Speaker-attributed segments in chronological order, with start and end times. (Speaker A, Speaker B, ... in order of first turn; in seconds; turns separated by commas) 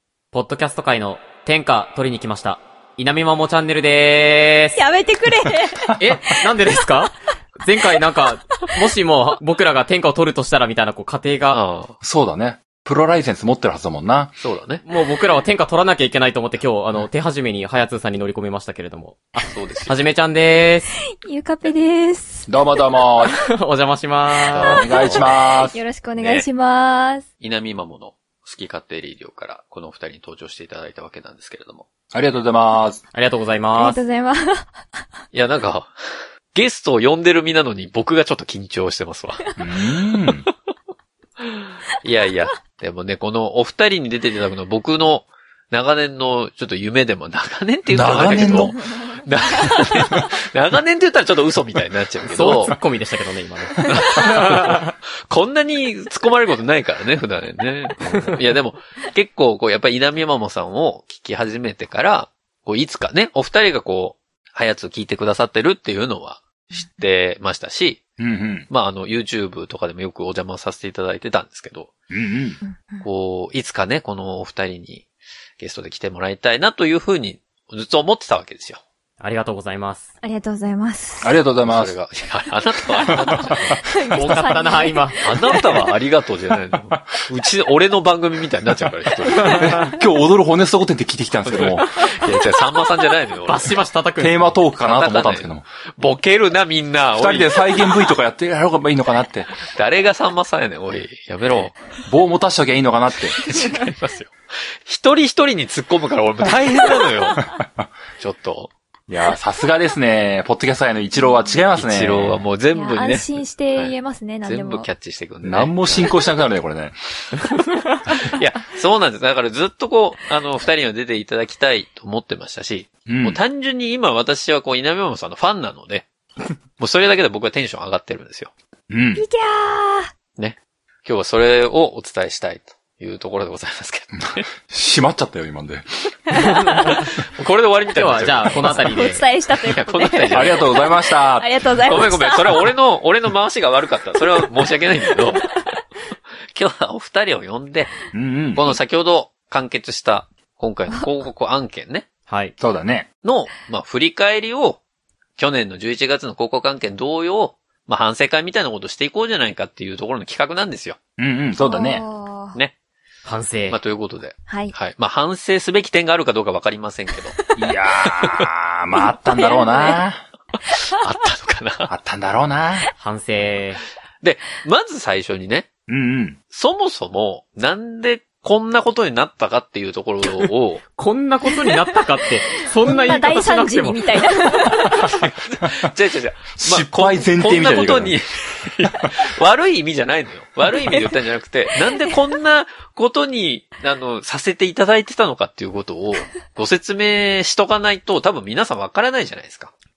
Speaker A: 0.3-4.8, Speaker B: 4.7-6.0, Speaker A: 6.0-11.6, Speaker C: 11.5-11.9, Speaker D: 12.0-14.3, Speaker C: 14.4-14.8, Speaker A: 14.8-20.9, Speaker C: 19.5-19.9, Speaker B: 21.1-22.8, Speaker D: 22.5-23.4, Speaker A: 23.4-24.9, Speaker C: 24.5-25.3, Speaker D: 24.5-25.8, Speaker B: 24.9-27.2, Speaker C: 26.2-26.4, Speaker C: 27.4-31.9, Speaker D: 32.1-33.0, Speaker A: 33.1-34.0, Speaker B: 33.7-34.7, Speaker C: 35.3-39.4, Speaker D: 39.6-40.5, Speaker C: 41.4-52.8, Speaker D: 47.9-48.8, Speaker B: 48.9-49.8, Speaker A: 52.3-54.9, Speaker C: 53.8-68.0, Speaker D: 68.2-68.7, Speaker C: 68.7-71.9, Speaker D: 72.1-72.6, Speaker B: 72.6-73.0, Speaker C: 73.0-75.1, Speaker C: 75.6-78.8, Speaker A: 79.2-80.1, Speaker B: 80.2-81.3, Speaker D: 81.2-81.9, Speaker C: 81.6-83.8, Speaker B: 83.0-85.6, Speaker D: 83.1-83.8, Speaker A: 84.1-85.5, Speaker C: 85.2-89.8, Speaker D: 86.9-87.2, Speaker D: 89.5-91.8, Speaker C: 91.4-93.8, Speaker A: 91.8-92.3, Speaker A: 93.5-94.5, Speaker D: 94.2-95.6, Speaker C: 94.8-97.9, Speaker D: 97.2-99.7, Speaker C: 99.7-101.8, Speaker D: 102.1-103.5, Speaker C: 103.3-104.3, Speaker C: 104.8-107.5, Speaker C: 108.2-108.7, Speaker D: 109.1-112.4, Speaker B: 111.2-111.4, Speaker C: 111.7-116.2, Speaker B: 112.7-114.9, Speaker D: 115.4-116.9, Speaker C: 118.2-126.1, Speaker D: 123.1-123.4, Speaker C: 126.8-128.5, Speaker D: 128.9-129.2, Speaker B: 129.2-130.1, Speaker C: 130.4-134.5, Speaker D: 134.2-135.9, Speaker B: 136.3-136.9, Speaker C: 136.9-139.1, Speaker A: 137.9-139.2, Speaker B: 138.6-142.7, Speaker C: 139.6-140.7, Speaker D: 140.3-141.5, Speaker C: 141.8-145.5, Speaker C: 146.5-152.1, Speaker D: 148.1-148.7, Speaker A: 152.3-152.5, Speaker D: 152.6-153.1, Speaker C: 153.2-154.8, Speaker C: 155.4-161.0, Speaker D: 161.2-162.0, Speaker B: 161.6-162.6, Speaker A: 163.2-163.8, Speaker C: 163.7-167.4, Speaker B: 164.5-164.7, Speaker D: 167.6-170.2, Speaker C: 168.2-168.5, Speaker B: 169.3-170.0, Speaker C: 170.7-171.9, Speaker D: 171.9-172.8, Speaker A: 173.0-173.8, Speaker C: 174.2-175.7, Speaker D: 175.9-176.4, Speaker C: 176.5-180.8, Speaker A: 180.2-184.6, Speaker B: 182.8-185.0, Speaker C: 185.1-199.7, Speaker D: 186.6-188.2